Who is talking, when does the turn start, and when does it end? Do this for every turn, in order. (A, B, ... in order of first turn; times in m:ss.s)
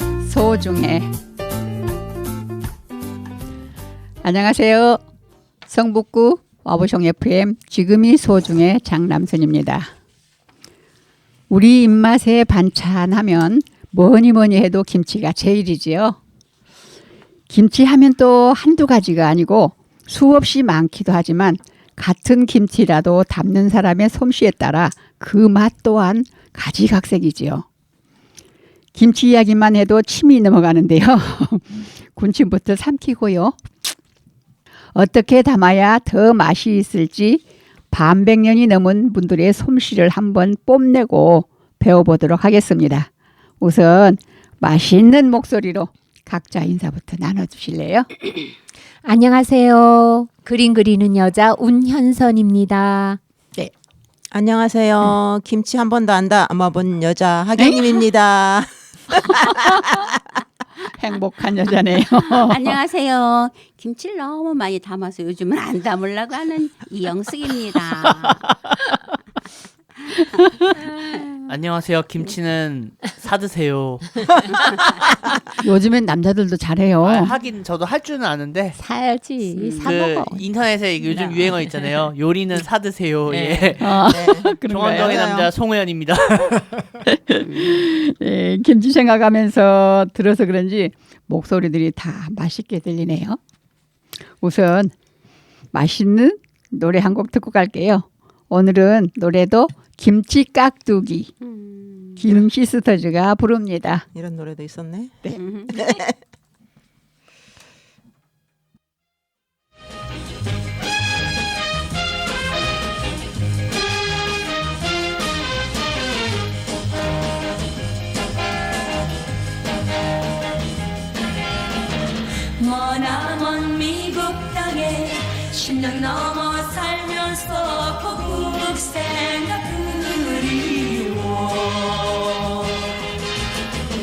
0:00.2-0:01.1 A
0:04.2-0:05.0 A
0:05.7-0:09.9 A
0:11.5-0:16.2 A
0:17.5-0:27.6 A
0:28.9-0:33.9 A
0:34.9-0:43.1 A
0:43.6-0:48.1 A
0:49.0-0:53.2 B
0:54.3-0:59.6 C
0:57.6-0:57.9 A
1:00.9-1:02.8 A
1:02.1-1:08.4 D
1:08.0-1:08.5 E
1:10.0-1:11.2 D
1:11.5-1:14.8 E
1:15.6-1:17.3 A
1:17.0-1:18.8 E
1:18.7-1:20.4 B
1:19.5-1:20.0 D
1:19.8-1:23.9 E
1:21.0-1:21.6 D
1:23.3-1:23.8 B
1:23.8-1:25.3 A
1:24.0-1:25.5 C
1:24.7-1:26.8 E
1:27.3-1:33.4 A
1:27.4-1:27.8 D
1:34.4-1:34.9 A
1:35.7-1:41.3 A
1:41.4-1:42.3 D
1:42.2-1:44.0 A
1:44.1-1:46.1 C
1:45.3-1:46.0 D
2:02.6-2:13.0 F